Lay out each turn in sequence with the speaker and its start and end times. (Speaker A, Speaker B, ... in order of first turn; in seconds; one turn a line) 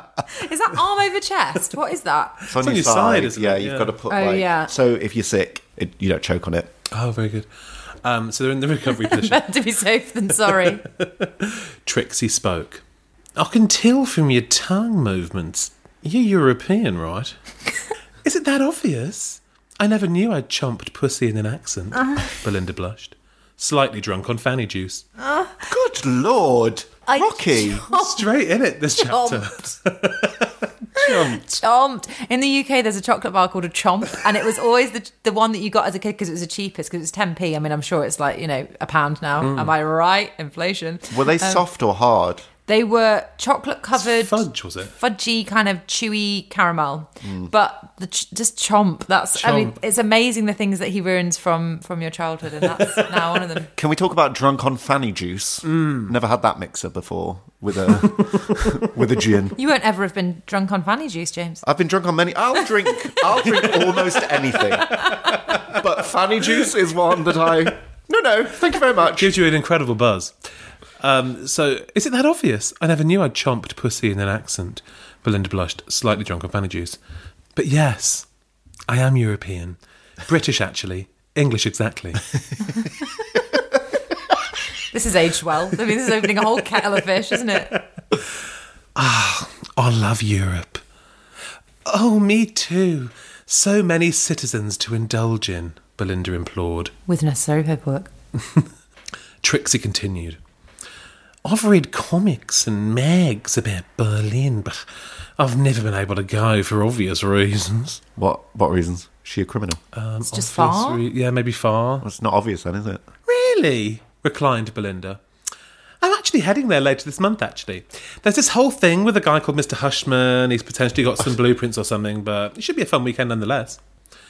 Speaker A: 0.3-2.4
Speaker B: 2.5-6.7
Speaker C: 2.5-3.9
Speaker A: 4.1-4.7
Speaker C: 6.9-7.5
Speaker C: 8.0-9.4
Speaker A: 9.0-10.8
Speaker C: 10.5-12.8
Speaker C: 13.3-17.4
Speaker C: 18.2-25.0
Speaker A: 25.2-25.6
Speaker B: 25.7-27.8
Speaker A: 27.1-28.2
Speaker C: 27.9-31.6
Speaker A: 29.0-29.7
Speaker A: 31.0-41.6
Speaker C: 39.4-39.7
Speaker B: 41.1-42.5
Speaker A: 42.6-44.5
Speaker C: 44.0-44.9
Speaker A: 45.0-53.7
Speaker B: 47.2-47.5
Speaker C: 49.4-49.7
Speaker B: 53.8-59.5
Speaker C: 55.7-56.1
Speaker C: 58.2-58.7
Speaker A: 59.6-61.6
Speaker B: 61.6-69.3
Speaker A: 65.0-65.3
Speaker C: 65.1-65.6
Speaker C: 69.1-70.3
Speaker C: 71.0-77.0
Speaker C: 77.5-78.3
Speaker C: 78.9-82.4
Speaker A: 84.9-87.7
Speaker C: 89.0-90.8
Speaker C: 91.8-96.9
Speaker A: 97.1-98.1
Speaker C: 99.4-100.4
Speaker C: 101.4-104.8
Speaker C: 105.4-108.0
Speaker B: 108.2-109.8
Speaker C: 109.9-112.0
Speaker A: 110.2-111.0
Speaker B: 112.0-113.0
Speaker C: 113.3-115.2
Speaker C: 116.0-123.8